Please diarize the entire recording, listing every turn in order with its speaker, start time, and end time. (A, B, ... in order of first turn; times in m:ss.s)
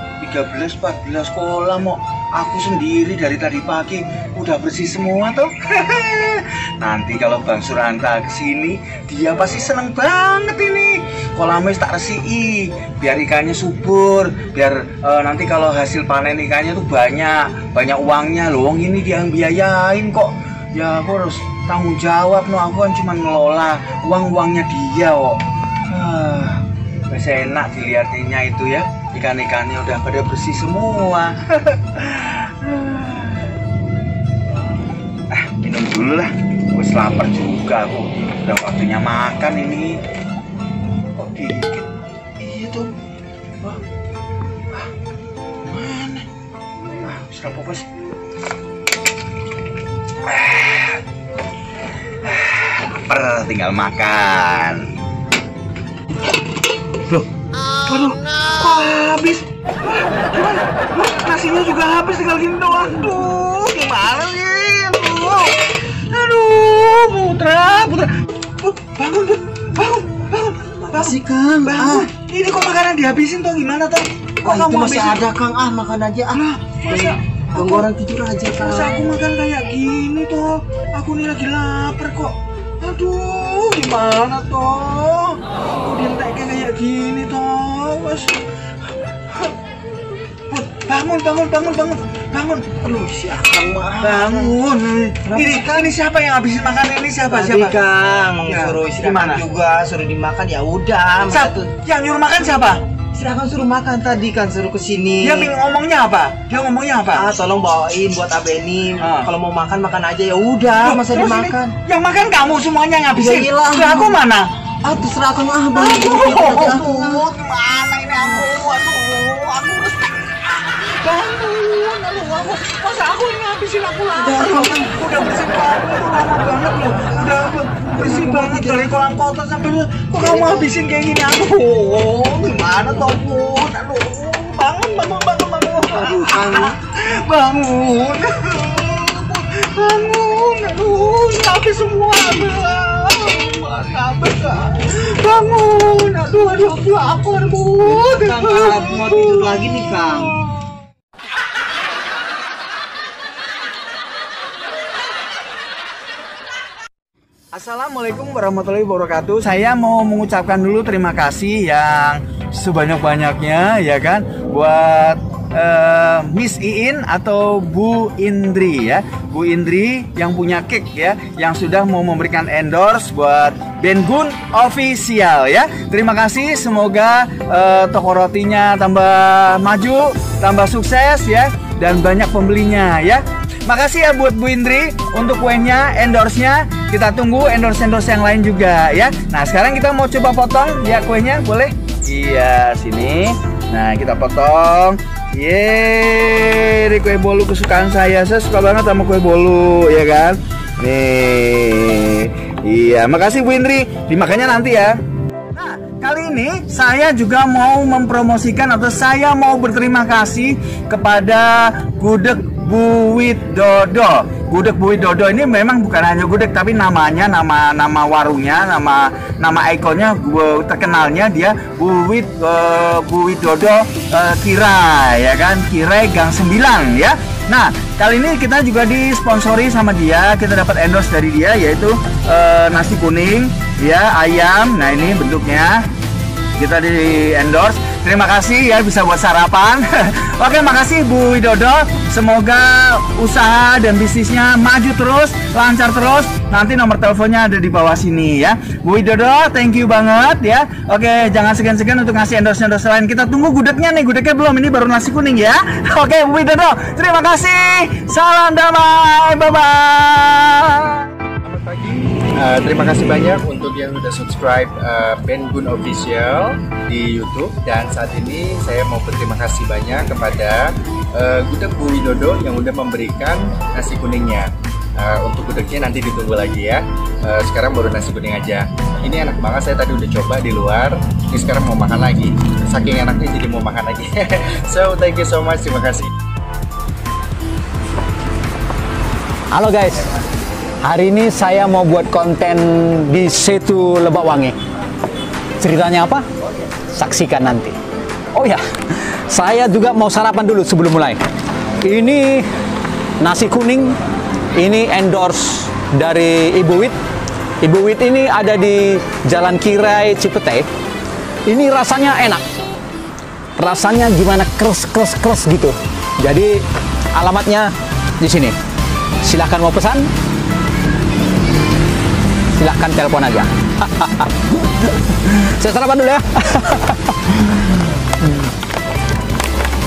0:00.2-0:33.6 A
0:35.3-0:40.0 A
0:41.1-0:41.9 A
0:42.4-0:42.9 A
0:45.7-0:46.2 A
0:47.0-0:47.8 A
0:50.2-0:51.0 A
0:52.2-0:54.8 A
0:57.8-1:08.1 A
1:08.6-1:15.3 A
1:10.9-1:12.1 B
1:14.4-1:19.0 B
1:16.3-1:17.9 A
1:18.6-1:28.4 A
1:30.5-1:32.8 A
1:32.8-1:34.6 B
1:34.0-1:37.8 A
1:35.3-1:35.9 B
1:37.3-1:41.7 B
1:38.4-1:39.4 A
1:41.2-1:42.8 A
1:43.1-1:45.5 B
1:45.2-1:47.3 A
1:47.2-1:51.7 B
1:49.0-1:49.3 A
1:50.8-1:54.4 A
1:53.1-1:54.2 B
1:54.8-1:57.2 B
1:55.7-2:24.5 A
2:04.1-2:04.9 B
2:08.0-2:08.9 B
2:10.2-2:10.6 B
2:15.9-2:16.8 B
2:23.0-2:23.5 B
2:24.3-2:30.4 B
2:25.2-2:29.5 A
2:37.5-3:24.9 A
3:25.5-3:55.7 A
3:56.6-4:21.1 A
4:21.5-4:46.1 C
4:49.5-4:50.1 D
4:50.8-4:54.6 D
4:55.6-4:56.3 D
4:56.9-4:57.8 D
4:58.3-5:01.2 D
5:01.8-5:02.5 D
5:03.2-5:04.0 D
5:04.5-5:07.0 D
5:07.6-5:10.7 D
5:11.5-5:12.4 D
5:13.6-5:16.6 D
5:17.1-5:18.6 D
5:19.2-5:20.1 D
5:22.5-5:24.3 D
5:24.8-5:27.1 D